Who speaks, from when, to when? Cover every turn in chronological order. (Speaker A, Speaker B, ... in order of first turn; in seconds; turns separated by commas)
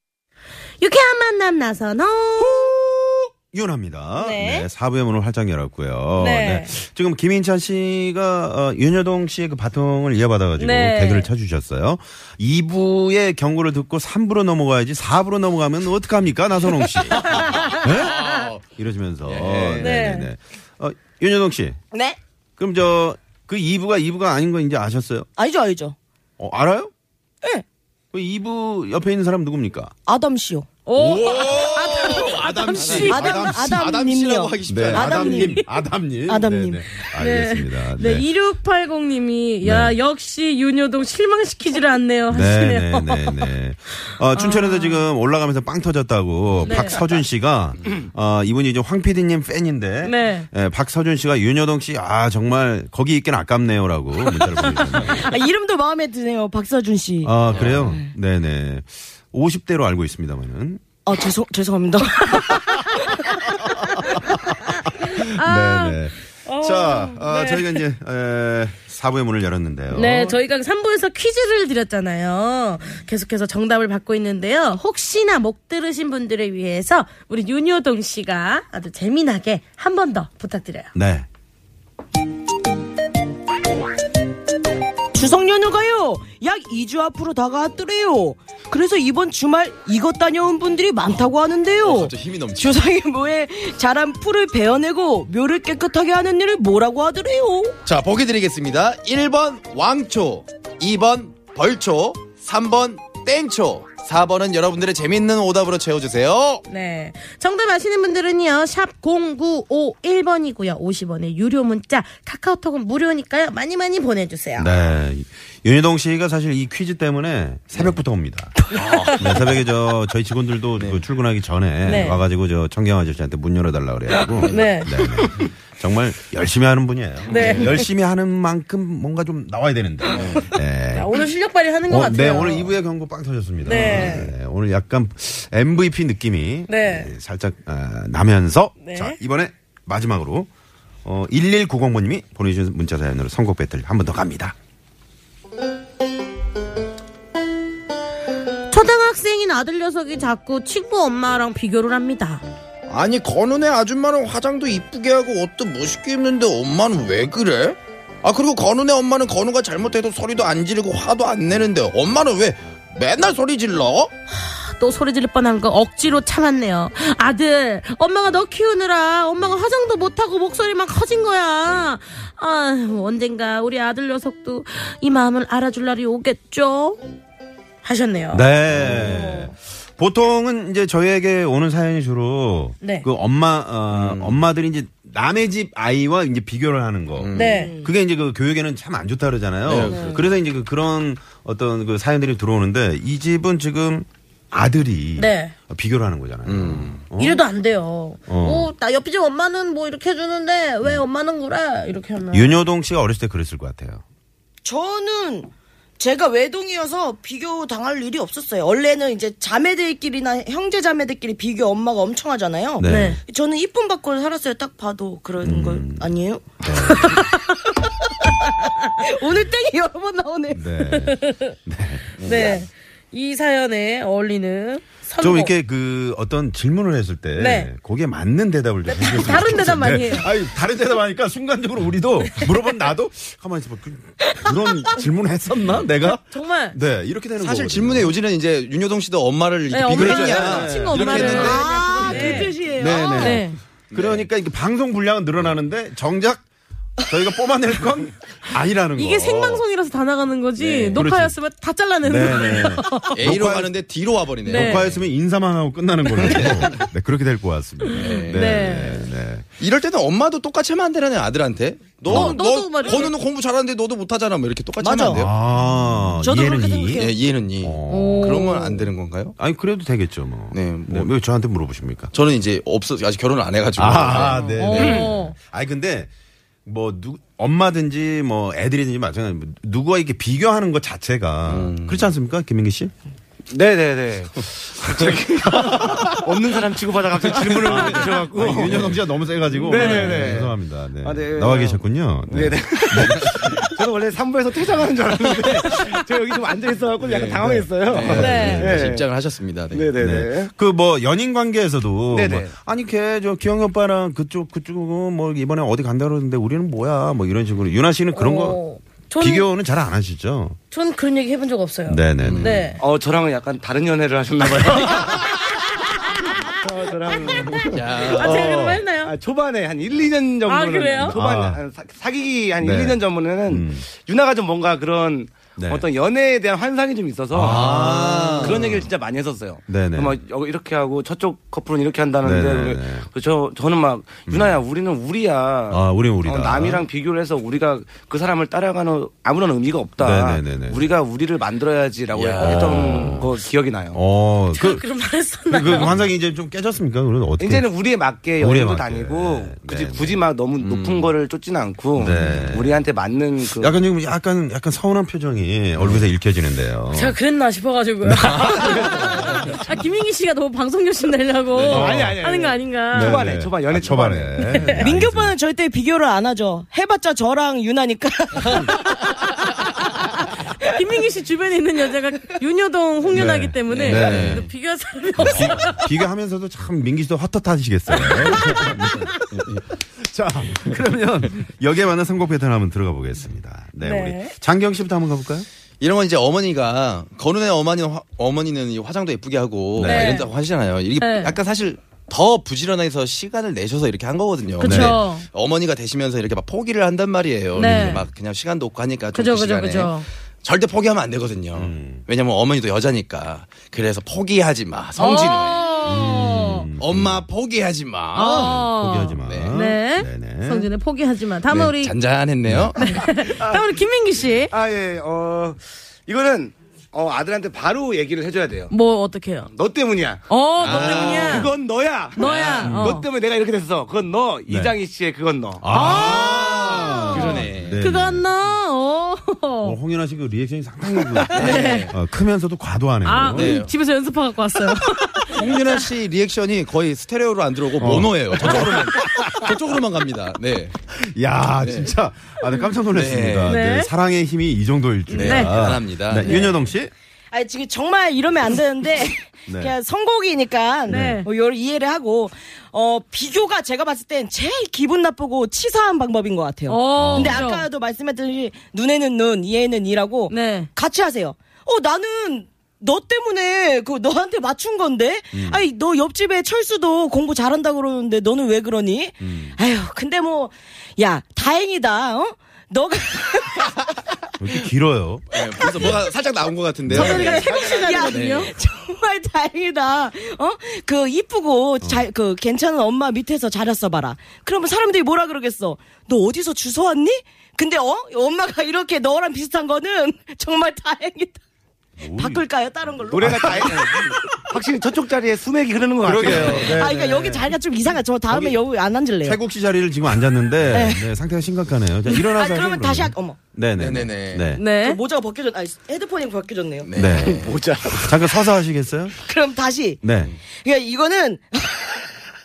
Speaker A: 0.8-2.7, Speaker B: 2.4-21.8, Speaker A: 4.2-4.7, Speaker A: 6.2-6.7, Speaker A: 10.6-11.3, Speaker C: 17.3-18.6, Speaker C: 19.2-20.1, Speaker A: 19.8-20.3, Speaker D: 21.9-22.2, Speaker B: 22.6-25.3, Speaker D: 25.4-26.0, Speaker B: 26.4-26.9, Speaker B: 28.1-29.9, Speaker D: 30.1-30.7, Speaker A: 30.9-33.4, Speaker B: 31.0-33.8, Speaker C: 32.1-35.5, Speaker D: 33.0-35.6, Speaker B: 34.7-38.3, Speaker D: 36.3-36.8, Speaker A: 37.1-43.5, Speaker B: 39.6-40.0, Speaker B: 42.3-55.3, Speaker A: 44.3-45.1, Speaker A: 46.6-47.0, Speaker A: 50.0-50.5, Speaker D: 55.1-58.1, Speaker B: 57.2-60.8, Speaker C: 57.5-58.0, Speaker D: 61.0-63.4, Speaker B: 63.8-70.4, Speaker A: 65.1-67.8, Speaker A: 69.9-80.9, Speaker B: 81.0-81.3, Speaker D: 85.1-97.8, Speaker C: 91.8-92.8, Speaker C: 97.8-106.6, Speaker A: 106.7-114.7, Speaker B: 114.6-131.2, Speaker C: 118.9-119.1, Speaker A: 119.0-119.3, Speaker C: 120.8-121.0, Speaker A: 121.8-122.2, Speaker A: 124.4-124.9, Speaker A: 127.3-127.9, Speaker C: 130.1-130.4, Speaker A: 130.9-132.8, Speaker B: 131.9-140.5, Speaker A: 133.7-134.3, Speaker A: 136.7-137.1, Speaker A: 138.8-139.2, Speaker B: 141.1-144.6, Speaker A: 148.7-152.4, Speaker C: 152.9-164.1, Speaker A: 164.3-177.0, Speaker A: 177.8-178.5, Speaker B: 178.3-197.4, Speaker D: 178.9-179.5, Speaker A: 182.8-183.1, Speaker C: 183.9-184.4, Speaker C: 187.2-187.6, Speaker A: 187.3-187.8, Speaker D: 187.4-187.9, Speaker C: 189.6-190.3, Speaker D: 189.9-190.2, Speaker A: 195.2-195.6, Speaker C: 196.4-197.1, Speaker A: 197.2-202.6, Speaker B: 198.3-198.7, Speaker B: 202.3-204.0, Speaker D: 204.6-216.5, Speaker B: 212.8-213.2, Speaker A: 212.8-213.2, Speaker B: 215.4-217.2, Speaker A: 216.9-217.4, Speaker D: 219.0-220.6, Speaker B: 220.5-222.1, Speaker A: 220.8-221.5, Speaker C: 222.2-222.6, Speaker A: 222.2-225.5, Speaker B: 225.2-238.2, Speaker A: 227.4-227.7, Speaker A: 228.9-230.3, Speaker A: 236.3-236.8, Speaker C: 237.4-242.4, Speaker A: 239.7-242.6, Speaker B: 239.9-246.4, Speaker D: 241.2-243.4, Speaker A: 243.1-243.6, Speaker C: 243.9-244.3, Speaker B: 247.0-249.6, Speaker A: 249.0-253.3, Speaker C: 250.7-251.0, Speaker B: 250.9-251.4, Speaker B: 252.0-253.8, Speaker C: 253.1-255.1, Speaker A: 254.4-254.8, Speaker B: 254.5-259.5, Speaker A: 256.2-256.8, Speaker A: 257.9-259.1, Speaker C: 257.9-258.6, Speaker C: 259.6-265.3, Speaker A: 262.1-263.2, Speaker B: 262.1-262.4, Speaker D: 264.8-265.3, Speaker B: 265.1-272.1, Speaker D: 266.2-267.2, Speaker C: 266.9-269.4, Speaker A: 267.9-268.7, Speaker C: 270.5-271.1, Speaker C: 272.1-274.9, Speaker B: 273.8-276.1, Speaker A: 274.5-275.4, Speaker E: 274.8-275.0, Speaker B: 276.7-282.9, Speaker C: 281.5-282.1, Speaker E: 283.5-289.0, Speaker B: 285.6-286.2, Speaker B: 287.5-293.4, Speaker E: 289.5-299.1, Speaker A: 289.8-290.1, Speaker C: 297.1-299.9, Speaker B: 297.5-298.8, Speaker A: 298.1-298.6, Speaker E: 299.7-300.5, Speaker B: 300.0-308.6, Speaker E: 302.1-302.5, Speaker A: 308.1-309.5, Speaker B: 309.2-310.6, Speaker A: 310.7-312.8, Speaker B: 311.9-312.7, Speaker C: 312.2-312.6, Speaker E: 312.8-315.5, Speaker E: 316.2-344.0, Speaker C: 317.7-318.7, Speaker A: 318.1-319.1, Speaker A: 320.5-321.2, Speaker B: 321.1-321.6, Speaker B: 322.6-323.9, Speaker B: 325.6-325.9, Speaker B: 327.3-328.9, Speaker C: 327.4-328.7, Speaker B: 329.7-330.2, Speaker B: 332.2-333.1, Speaker B: 334.3-334.6, Speaker B: 335.7-336.9, Speaker B: 340.0-340.9, Speaker C: 342.1-343.2, Speaker B: 342.5-343.3, Speaker B: 343.9-344.9, Speaker A: 344.5-346.0, Speaker B: 345.5-347.7, Speaker E: 347.4-353.8, Speaker B: 348.4-350.2, Speaker C: 350.6-351.1, Speaker B: 351.9-352.9, Speaker B: 353.5-357.2, Speaker C: 355.8-356.1, Speaker A: 356.9-363.2, Speaker B: 358.1-358.8, Speaker E: 358.8-359.5, Speaker C: 361.5-361.9, Speaker E: 361.6-364.6, Speaker B: 361.7-362.2, Speaker B: 362.9-365.4, Speaker A: 364.4-364.9, Speaker D: 364.8-369.3, Speaker A: 370.4-375.9, Speaker B: 373.1-374.5, Speaker E: 373.7-374.2, Speaker C: 373.7-374.4, Speaker B: 375.2-379.2, Speaker A: 377.9-379.2, Speaker C: 378.8-379.6, Speaker B: 379.7-385.5, Speaker A: 383.8-384.3, Speaker C: 385.8-405.8, Speaker B: 389.8-390.2, Speaker A: 389.8-390.3, Speaker A: 391.0-391.4, Speaker A: 394.6-395.3, Speaker B: 394.6-395.0, Speaker A: 397.5-398.1, Speaker B: 397.6-398.1, Speaker A: 399.1-400.1, Speaker B: 401.5-402.1, Speaker A: 405.0-406.7, Speaker B: 405.9-407.3, Speaker C: 406.8-409.6, Speaker A: 408.1-412.0, Speaker B: 408.4-410.7, Speaker C: 411.4-413.0, Speaker B: 412.4-412.7, Speaker A: 412.8-414.5, Speaker E: 413.1-413.8, Speaker E: 414.5-418.7, Speaker A: 418.7-419.5, Speaker E: 419.5-425.7, Speaker A: 420.3-421.6, Speaker C: 420.6-421.5, Speaker A: 422.2-423.1, Speaker B: 422.6-423.0, Speaker B: 424.5-424.8, Speaker B: 425.6-428.3, Speaker A: 425.7-429.8, Speaker C: 426.0-426.2, Speaker C: 426.8-427.8, Speaker B: 429.6-433.6, Speaker C: 431.3-431.9, Speaker A: 431.3-431.9, Speaker A: 433.1-435.9, Speaker C: 433.3-433.8, Speaker C: 435.3-440.8, Speaker B: 437.8-439.4, Speaker B: 440.9-446.9, Speaker C: 441.6-441.9, Speaker C: 442.9-443.6, Speaker A: 443.5-443.9, Speaker C: 445.1-446.4, Speaker A: 445.1-445.6, Speaker A: 446.2-446.5, Speaker D: 446.3-446.5, Speaker D: 447.3-473.9, Speaker B: 449.5-449.8, Speaker B: 450.9-451.2, Speaker A: 450.9-451.3, Speaker A: 456.7-457.7, Speaker B: 457.0-457.5, Speaker A: 460.3-460.7, Speaker B: 465.3-465.6, Speaker B: 474.4-476.0, Speaker C: 475.3-478.5, Speaker B: 476.9-477.2, Speaker D: 476.9-491.4, Speaker A: 476.9-478.5, Speaker B: 481.8-482.1, Speaker B: 492.0-492.4, Speaker D: 492.1-494.0, Speaker E: 493.1-496.8, Speaker B: 493.2-494.1, Speaker B: 496.0-497.6, Speaker D: 496.3-499.4, Speaker B: 498.3-498.6, Speaker B: 499.2-504.6, Speaker D: 500.6-501.1, Speaker D: 502.1-503.4, Speaker C: 503.8-504.5, Speaker A: 504.5-505.0, Speaker D: 504.6-506.9, Speaker C: 506.8-507.6, Speaker B: 506.9-509.1, Speaker E: 507.2-508.2, Speaker D: 509.2-510.0, Speaker B: 510.0-510.3, Speaker D: 510.6-512.1